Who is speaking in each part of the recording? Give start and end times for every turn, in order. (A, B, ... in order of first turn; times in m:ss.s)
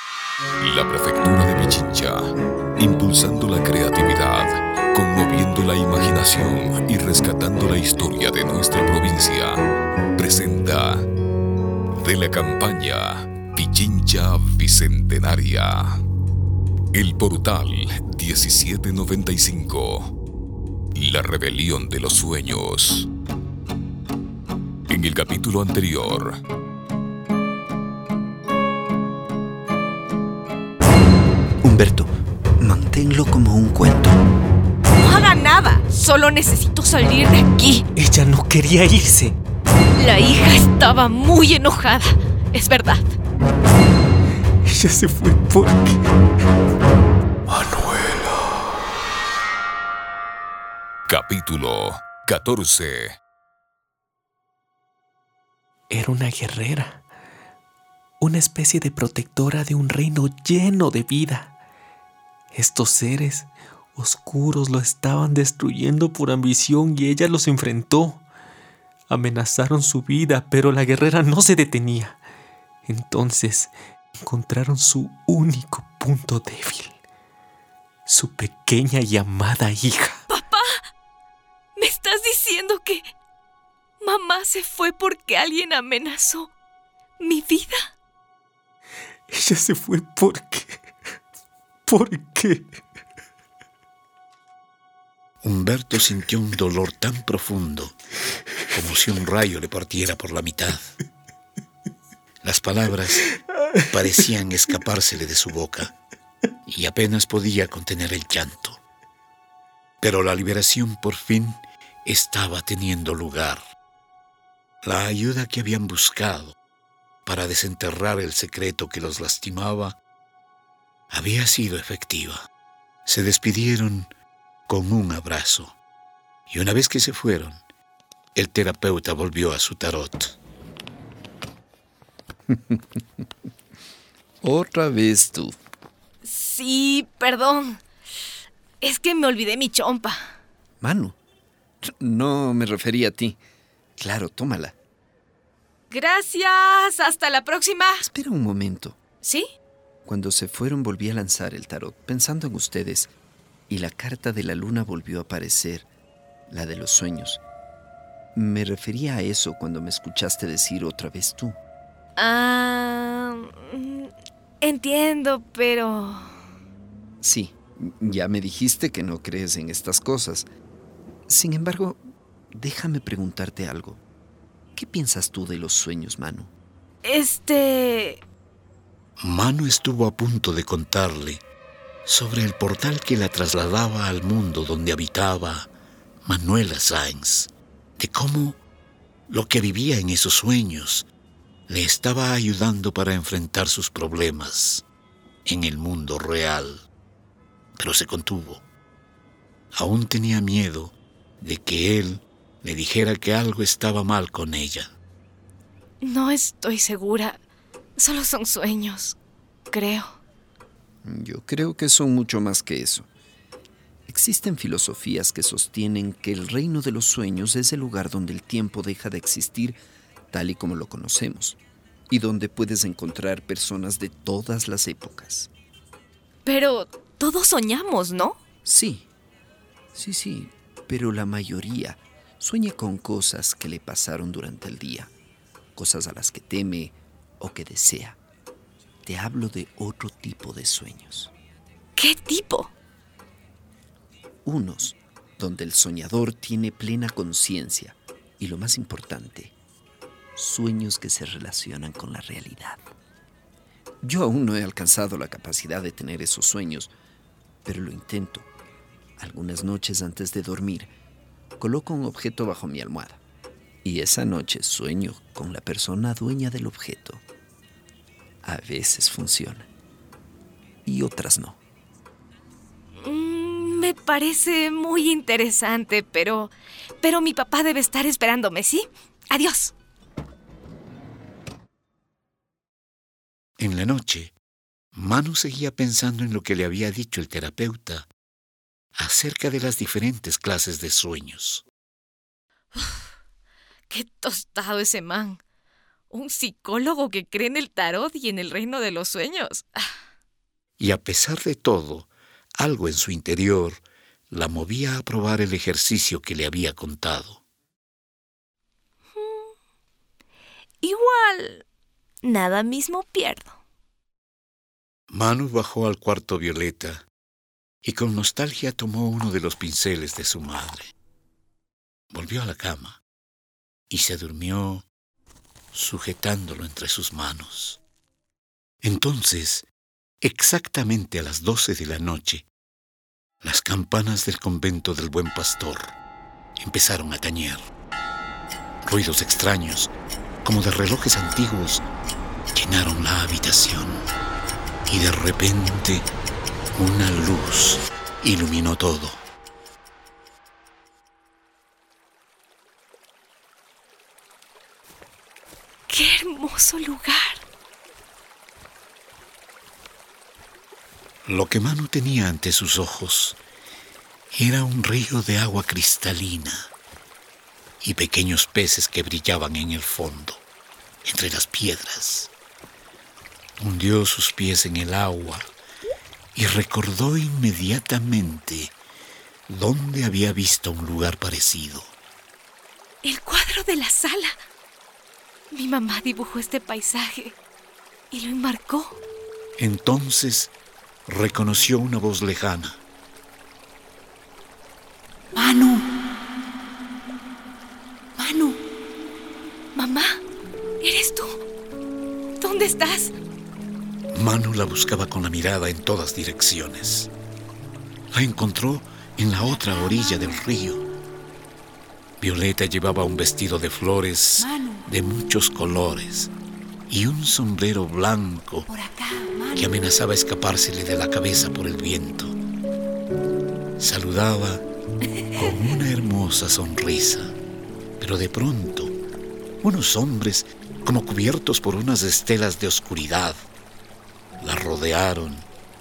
0:00.6-0:09.6 A
0:10.2-0:11.0 A
0:11.9-0:16.0 A
0:16.9-0:20.1 A
0:20.9-0:23.1 A
0:24.9-0:26.4 A
0:31.6-0:34.2 B
0:35.0-0:37.8 C
0:37.9-0:39.4 D
0:40.0-0:43.1 C
0:44.6-0:46.0 D
0:47.5-0:48.3 D
0:51.1-0:53.2 A
0:55.9-0:57.0 D
0:58.2-1:01.6 D
1:02.5-1:08.2 D
1:09.1-1:12.2 D
1:12.8-1:17.0 D
1:18.1-1:20.2 D
1:20.3-1:20.6 C
1:21.8-1:23.0 C
1:24.0-1:26.5 C
1:27.2-1:27.9 C
1:29.3-1:30.8 D
1:31.8-1:32.7 D
1:35.4-1:37.9 E
1:38.7-1:40.9 E
1:42.4-1:43.3 E
1:43.6-1:44.0 D
1:43.9-1:45.9 E
1:46.7-1:48.8 E
1:50.0-1:53.6 E
1:54.8-1:56.6 E
1:57.2-2:00.0 E
2:01.1-2:02.5 E
2:03.0-2:04.1 E
2:04.7-2:05.8 E
2:06.5-2:07.6 E
2:08.4-2:10.4 E
2:12.5-2:13.0 B
2:14.4-2:15.6 B
2:16.2-2:17.8 C
2:18.8-2:20.3 C
2:20.8-2:21.2 B
2:21.8-2:23.4 B
2:24.0-2:24.8 B
2:25.9-2:28.0 C
2:28.0-2:29.0 B
2:29.2-2:29.5 C
2:30.0-2:33.1 B
2:33.7-2:35.9 B
2:36.5-2:37.4 B
2:38.3-2:41.6 B
2:42.2-2:44.1 C
2:44.6-2:46.2 C
2:47.2-2:50.5 B
2:51.3-2:54.0 B
2:54.7-2:56.5 B
2:57.0-2:58.2 C
2:59.2-3:01.4 E
3:02.0-3:05.7 E
3:06.2-3:08.6 E
3:09.3-3:11.1 E
3:11.7-3:14.8 E
3:15.4-3:16.8 E
3:17.8-3:18.6 E
3:19.7-3:24.9 E
3:26.0-3:27.4 C
3:28.0-3:29.2 C
3:29.7-3:30.2 C
3:31.0-3:33.1 B
3:34.1-3:45.5 B
3:46.4-3:48.4 C
3:48.6-3:49.1 B
3:49.9-3:55.1 B
3:55.7-3:58.2 B
3:59.0-4:01.3 B
4:02.0-4:02.7 C
4:04.4-4:09.5 B
4:10.3-4:12.9 B
4:14.0-4:16.9 B
4:17.6-4:18.5 B
4:19.2-4:20.9 B
4:21.6-4:23.2 B
4:23.8-4:27.2 B
4:28.4-4:29.7 B
4:30.8-4:31.6 B
4:33.0-4:39.7 C
4:43.6-4:44.3 E
4:44.9-4:48.1 E
4:49.0-4:51.6 E
4:52.7-4:53.0 C
4:53.9-4:55.4 C
4:56.1-4:59.8 C
5:00.8-5:07.4 E
5:09.2-5:09.4 C
5:10.8-5:11.6 C
5:12.2-5:13.5 C
5:15.1-5:17.0 E
5:17.8-5:20.9 E
5:22.1-5:23.0 E
5:23.9-5:24.8 E
5:25.7-5:27.8 E
5:28.8-5:29.6 E
5:30.2-5:32.4 E
5:33.4-5:35.9 E
5:36.6-5:37.6 E
5:38.8-5:39.9 E
5:40.4-5:41.8 E
5:42.5-5:44.0 E
5:44.9-5:46.1 E
5:46.7-5:49.2 E
5:55.9-5:57.4 C
6:01.2-6:03.4 E
6:04.3-6:06.7 E
6:07.8-6:10.4 E
6:11.0-6:12.3 E
6:13.6-6:15.5 E
6:16.3-6:18.7 E
6:19.5-6:21.9 E
6:23.0-6:24.3 C
6:25.5-6:27.4 C
6:28.1-6:29.0 C
6:29.6-6:30.5 E
6:31.0-6:32.8 E
6:35.4-6:35.8 C
6:38.2-6:38.5 C
6:39.7-6:40.2 C
6:40.8-6:41.4 C
6:42.4-6:43.1 C
6:44.1-6:47.1 E
6:48.1-6:50.8 E
6:52.2-6:56.3 E
6:56.9-6:58.7 E
6:59.5-7:02.4 E
7:03.8-7:04.6 E
7:05.4-7:07.3 E
7:08.0-7:08.9 E
7:09.6-7:13.4 E
7:14.4-7:15.4 E